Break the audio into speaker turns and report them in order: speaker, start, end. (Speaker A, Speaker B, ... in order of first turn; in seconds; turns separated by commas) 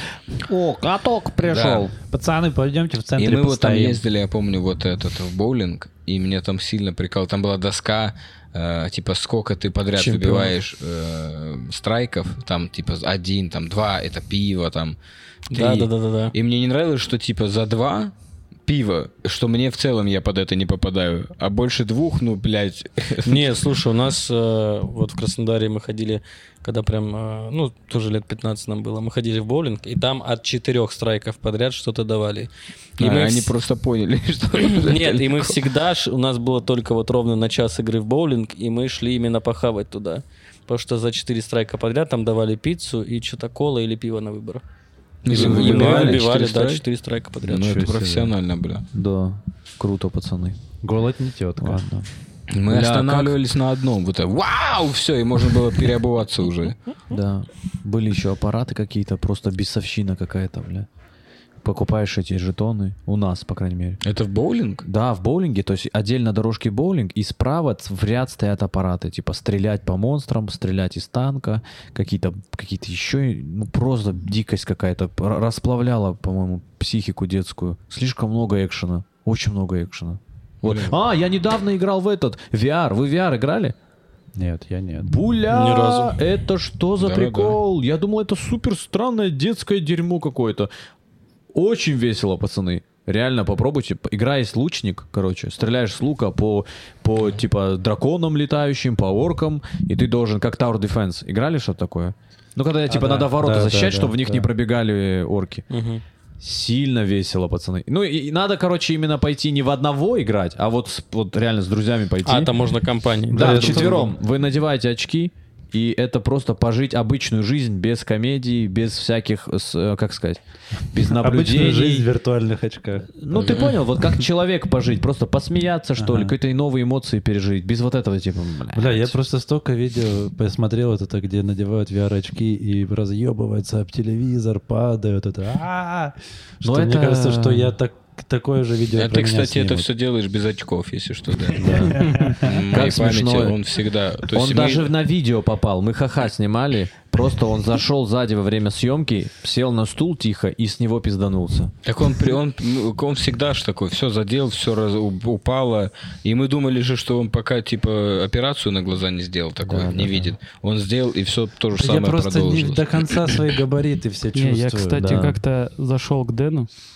Speaker A: 0.4-1.9, Speaker B: 1.4-1.9, Speaker C: 2.0-4.0, Speaker B: 3.2-15.0, Speaker A: 10.0-10.5, Speaker D: 10.0-10.4, Speaker D: 15.5-16.3, Speaker B: 15.5-18.1, Speaker B: 18.7-23.5, Speaker D: 23.2-33.5, Speaker B: 33.0-35.6, Speaker D: 34.6-44.6, Speaker B: 45.2-46.8, Speaker D: 45.3-47.8, Speaker A: 45.3-45.8, Speaker C: 45.3-46.1, Speaker B: 47.4-48.9, Speaker C: 47.6-48.4, Speaker A: 48.9-50.6, Speaker C: 50.8-51.9, Speaker A: 51.6-52.1, Speaker B: 52.5-56.8, Speaker A: 52.7-53.4, Speaker A: 57.1-60.9, Speaker A: 61.6-64.0, Speaker B: 64.0-64.9, Speaker A: 64.8-83.8, Speaker B: 80.6-81.0, Speaker C: 84.4-85.2, Speaker A: 85.0-90.7, Speaker D: 85.5-86.2, Speaker B: 87.0-87.6, Speaker A: 91.5-105.7, Speaker C: 102.9-104.5, Speaker D: 105.7-106.0, Speaker A: 106.4-112.5, Speaker D: 112.2-114.1, Speaker C: 113.3-114.1, Speaker A: 113.3-122.1, Speaker C: 121.0-123.2, Speaker A: 123.1-129.2, Speaker C: 126.0-126.3, Speaker C: 128.7-139.9, Speaker A: 136.6-137.8, Speaker B: 138.9-144.9, Speaker C: 141.6-142.5, Speaker A: 141.6-143.6, Speaker A: 144.3-151.7, Speaker B: 151.8-163.4, Speaker A: 159.6-160.3, Speaker C: 161.8-165.3, Speaker E: 164.3-166.7, Speaker A: 165.0-165.4